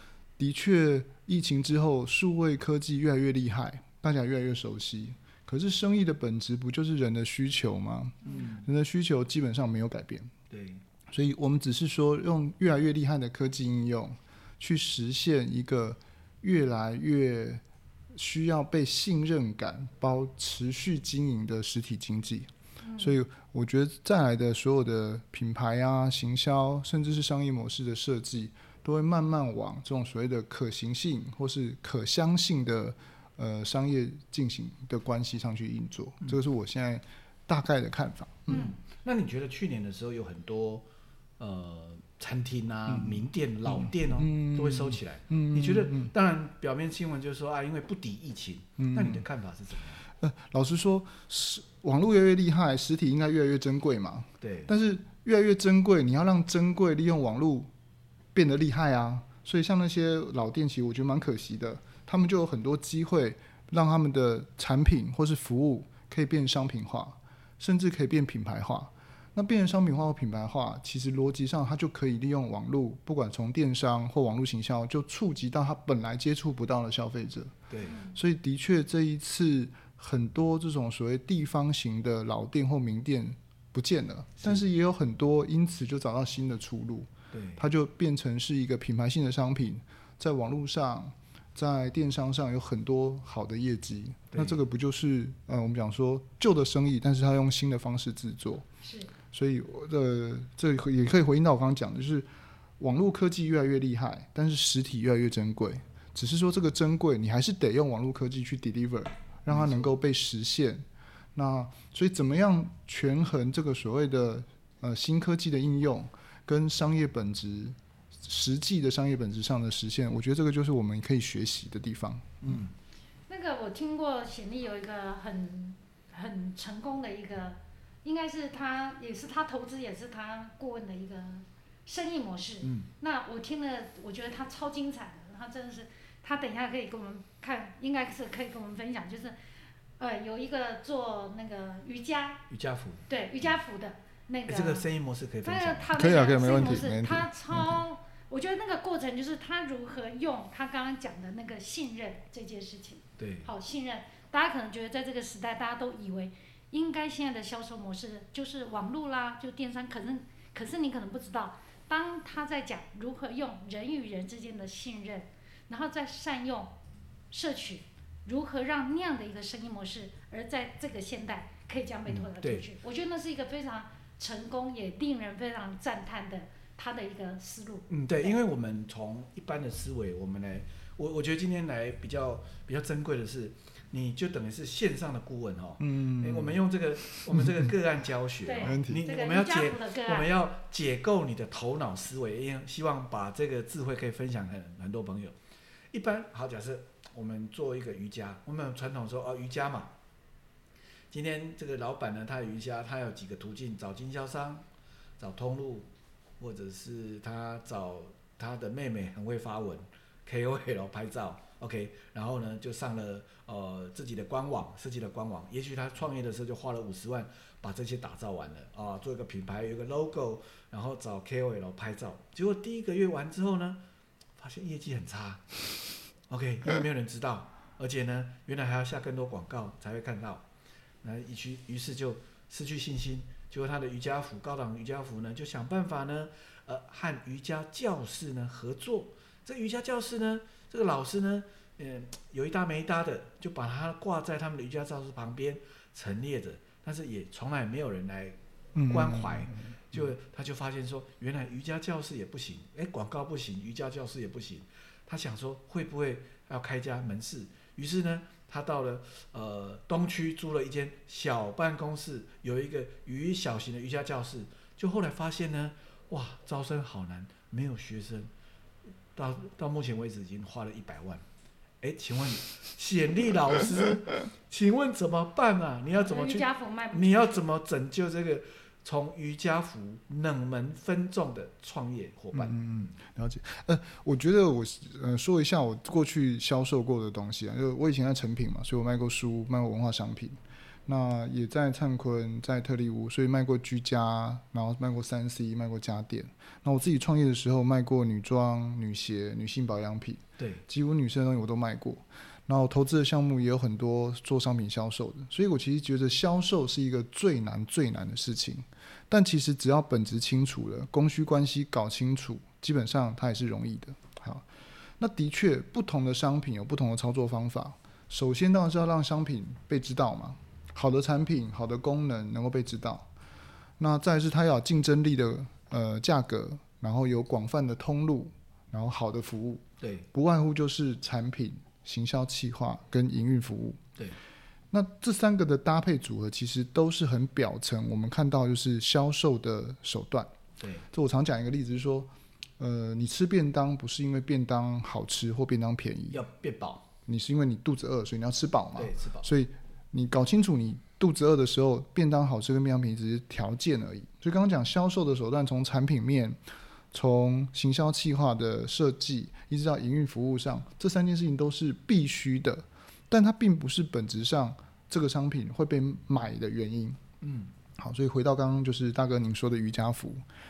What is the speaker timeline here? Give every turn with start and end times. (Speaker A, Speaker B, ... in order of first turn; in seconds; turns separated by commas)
Speaker A: 0.4-10.3, Speaker B: 8.2-8.7, Speaker B: 10.5-10.8, Speaker A: 11.1-17.6, Speaker A: 18.1-38.7, Speaker C: 22.8-23.1, Speaker B: 38.5-40.8, Speaker B: 41.4-50.0, Speaker A: 42.9-46.1, Speaker A: 48.8-49.2, Speaker A: 50.2-57.7, Speaker B: 54.4-54.7, Speaker A: 58.3-98.7, Speaker B: 77.7-78.0, Speaker C: 77.8-78.1, Speaker B: 84.4-84.7, Speaker B: 87.3-87.6, Speaker B: 94.3-94.6, Speaker C: 98.8-99.1, Speaker A: 99.3-102.2, Speaker A: 102.8-110.8, Speaker B: 109.5-110.0, Speaker A: 111.3-122.6, Speaker B: 122.4-122.7, Speaker C: 123.3-139.3, Speaker B: 132.6-132.9, Speaker C: 140.0-142.4, Speaker B: 142.5-143.6, Speaker C: 143.1-144.8, Speaker B: 144.5-145.9, Speaker C: 145.4-166.7, Speaker A: 145.9-147.8, Speaker B: 153.2-153.5, Speaker C: 167.3-178.4, Speaker B: 172.1-172.6, Speaker B: 177.9-195.3, Speaker A: 185.8-187.7, Speaker C: 188.4-190.3, Speaker A: 188.6-189.0, Speaker B: 195.9-199.9, Speaker B: 201.1-204.6, Speaker B: 205.2-205.9, Speaker B: 206.4-223.8, Speaker B: 224.4-225.6, Speaker B: 226.3-230.4, Speaker B: 231.0-248.4, Speaker A: 248.7-250.1, Speaker B: 248.9-268.3, Speaker B: 269.1-271.2, Speaker B: 271.8-282.9, Speaker C: 276.0-277.4, Speaker A: 282.3-314.4, Speaker A: 315.0-323.1, Speaker A: 323.8-333.8, Speaker B: 329.8-330.1, Speaker A: 334.7-340.3, Speaker B: 340.6-340.9, Speaker A: 340.9-346.2, Speaker B: 346.1-346.9, Speaker A: 347.1-356.4, Speaker B: 348.7-349.3, Speaker A: 356.9-367.0, Speaker B: 367.2-367.5, Speaker A: 367.8-370.2